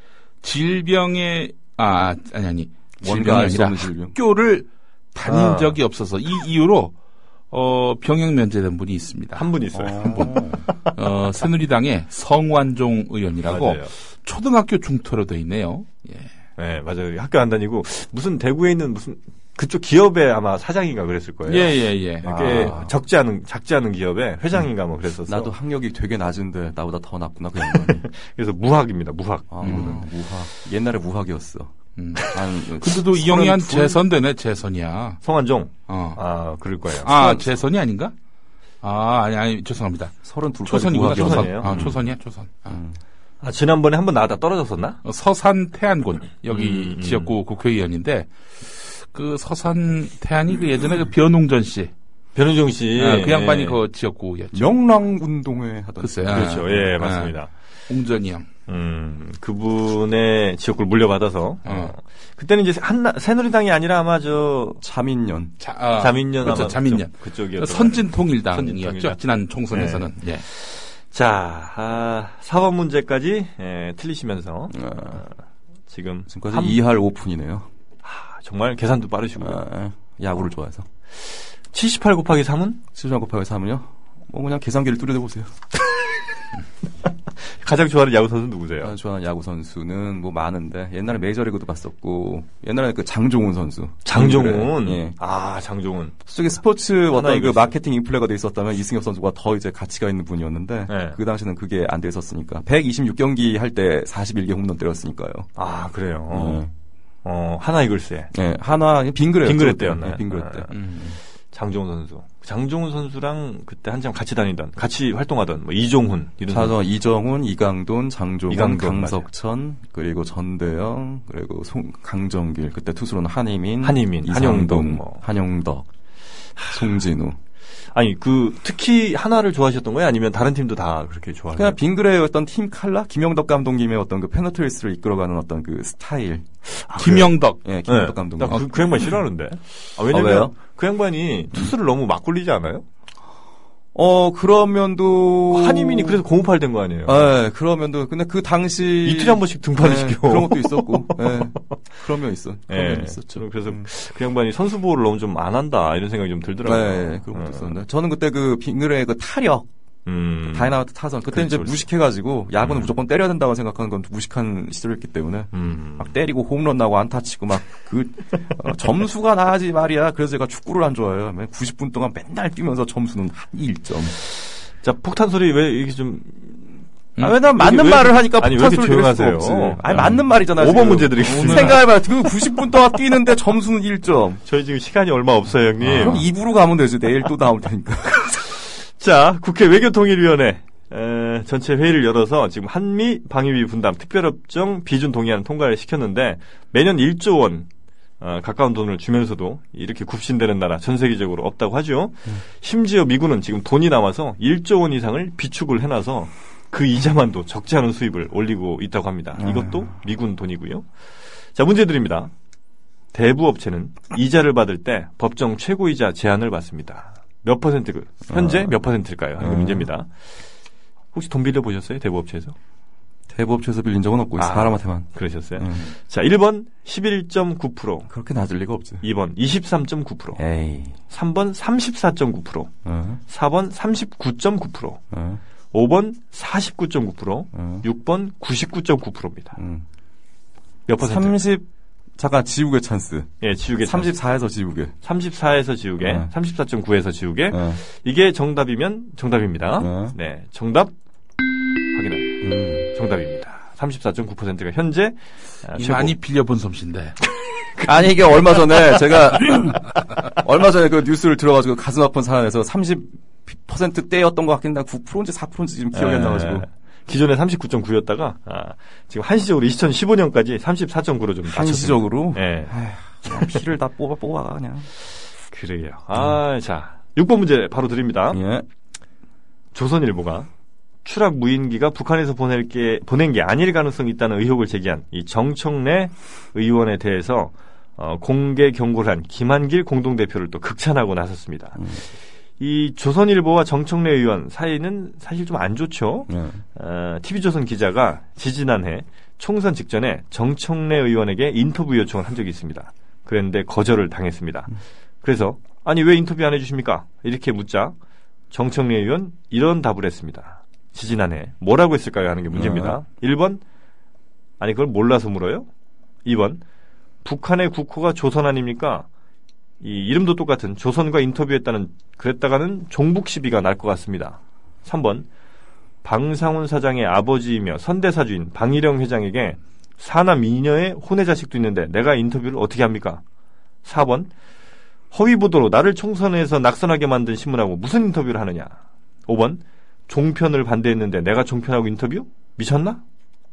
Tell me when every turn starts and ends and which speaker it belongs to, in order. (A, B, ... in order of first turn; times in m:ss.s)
0:00.4-0:07.0 A
0:03.0-0:04.2 B
0:05.3-0:05.8 C
0:07.5-0:16.3 A
0:09.4-0:10.4 C
0:09.7-0:10.6 B
0:13.5-0:13.9 C
0:16.6-0:25.5 C
0:21.5-0:22.9 A
0:22.2-0:22.8 B
0:25.3-0:28.1 B
0:27.7-0:30.0 C
0:29.5-0:31.7 B
0:29.6-0:30.0 A
0:32.0-0:35.2 A
0:32.2-0:33.9 B
0:35.2-0:37.4 C
0:35.9-0:36.2 A
0:37.0-0:38.1 A
0:38.8-0:42.8 A
0:40.2-0:42.0 B
0:40.9-0:41.9 C
0:42.7-0:43.0 B
0:43.4-0:45.0 C
0:45.0-0:51.9 A
0:46.5-0:47.3 C
0:52.4-0:53.8 C
0:53.0-0:54.7 A
0:54.5-0:56.9 B
0:56.0-0:57.3 A
0:56.3-0:57.5 C
0:57.9-0:58.5 A
0:58.7-1:04.8 C
1:01.6-1:01.9 A
1:04.8-1:05.6 B
1:05.6-1:10.4 A
1:06.0-1:09.2 C
1:09.7-1:15.3 C
1:14.7-1:15.2 B
1:15.9-1:16.8 C
1:16.3-1:17.7 B
1:18.0-1:19.6 C
1:19.4-1:20.9 B
1:21.7-1:22.8 C
1:22.9-1:25.5 B
1:27.5-1:28.9 C
1:28.8-1:35.2 B
1:34.0-1:36.2 C
1:36.3-1:45.5 B
1:37.1-1:37.7 C
1:40.9-1:41.2 C
1:45.6-1:46.7 C
1:46.3-1:46.7 B
1:47.2-1:48.3 C
1:48.3-1:50.7 B
1:49.4-1:51.0 C
1:50.7-1:51.1 A
1:51.5-1:56.8 C
1:56.5-2:05.9 B
1:58.5-1:59.3 C
2:03.8-2:05.2 C
2:06.7-2:07.4 B
2:07.9-2:11.8 C
2:11.6-2:16.4 B
2:16.9-2:22.8 C
2:17.0-2:17.6 A
2:17.6-2:18.8 B
2:20.1-2:20.5 B
2:24.0-2:26.2 B
2:25.5-2:27.4 C
2:27.0-2:33.8 B
2:29.0-2:31.5 C
2:32.7-2:37.8 C
2:36.6-2:39.7 B
2:40.1-2:41.9 C
2:40.5-2:54.2 B
2:42.6-2:42.9 C
2:45.5-2:46.1 C
2:54.8-2:56.7 C
2:57.2-3:04.4 B
2:57.2-3:01.9 C
3:01.2-3:01.8 A
3:04.5-3:06.3 C
3:05.8-3:08.5 B
3:09.0-3:17.7 C
3:18.2-3:30.9 C
3:29.4-3:29.9 B
3:31.6-3:32.3 C
3:33.1-3:40.1 C
3:38.3-3:38.8 B
3:39.4-3:39.9 B
3:41.1-3:42.6 C
3:43.3-3:45.9 B
3:44.4-3:48.1 C
3:48.1-3:49.0 B
3:49.0-3:50.4 C
3:50.4-3:51.0 B
3:51.1-3:52.7 C
3:52.8-3:53.2 B
3:53.3-3:55.0 C
3:55.1-3:55.4 B
3:55.7-3:59.6 C
3:57.6-3:57.8 B
3:59.6-3:59.8 B
4:00.9-4:01.4 C
4:01.0-4:01.7 B
4:02.2-4:05.0 B
4:03.4-4:04.2 C
4:05.0-4:10.9 C
4:06.0-4:06.3 B
4:07.5-4:07.8 B
4:09.8-4:10.2 B
4:11.9-4:16.2 C
4:12.4-4:12.9 B
4:15.8-4:17.2 A
4:17.4-4:19.0 C
4:17.8-4:26.7 B
4:25.9-4:32.7 C
4:31.5-4:34.9 B
4:35.5-4:38.4 C
4:38.3-4:38.7 B
4:39.7-4:40.5 C
4:41.0-4:51.9 C
4:51.8-4:52.0 B
4:52.6-5:08.0 C
4:56.3-4:56.6 B
5:08.5-5:13.6 C
5:12.5-5:13.0 B
5:14.6-5:15.7 C
5:16.2-5:16.6 C
5:17.2-5:19.1 C
5:19.8-5:25.3 C
5:26.0-5:33.2 C
5:33.8-5:34.3 C
5:35.1-5:43.0 C